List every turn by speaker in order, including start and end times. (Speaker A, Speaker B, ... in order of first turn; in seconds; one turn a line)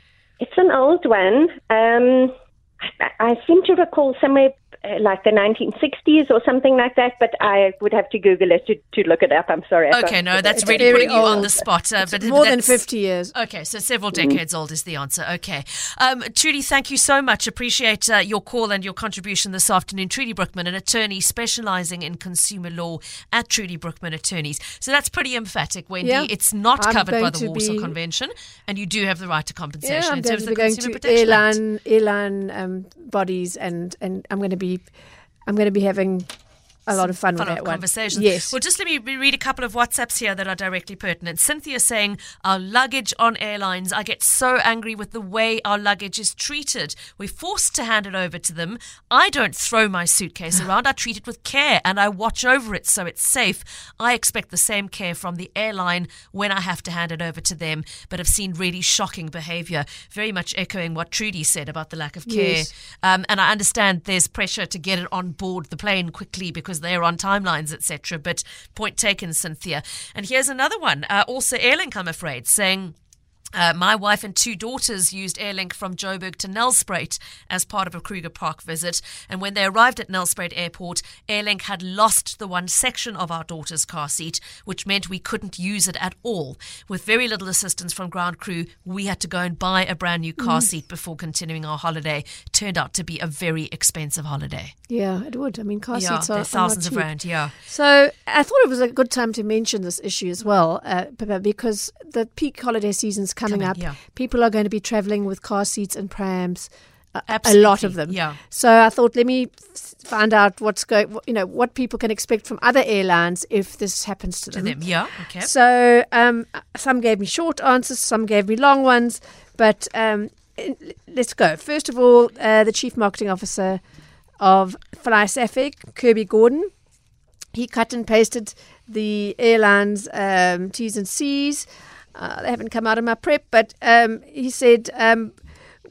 Speaker A: 0.4-11.6
Speaker B: 9.9-12.8
Speaker C: 10.5-13.3
Speaker B: 13.3-31.6
Speaker C: 26.0-27.9
Speaker C: 29.8-34.9
Speaker C: 35.5-36.3
Speaker C: 36.9-38.5
Speaker B: 36.9-72.9
Speaker C: 62.2-62.7
Speaker B: 73.5-94.7
Speaker C: 90.4-90.6
Speaker C: 94.9-114.8
Speaker B: 95.9-97.5
Speaker B: 103.5-104.0
Speaker B: 107.3-108.4
Speaker B: 114.5-115.5
Speaker C: 115.3-123.8
Speaker C: 124.4-126.7
Speaker C: 127.5-135.4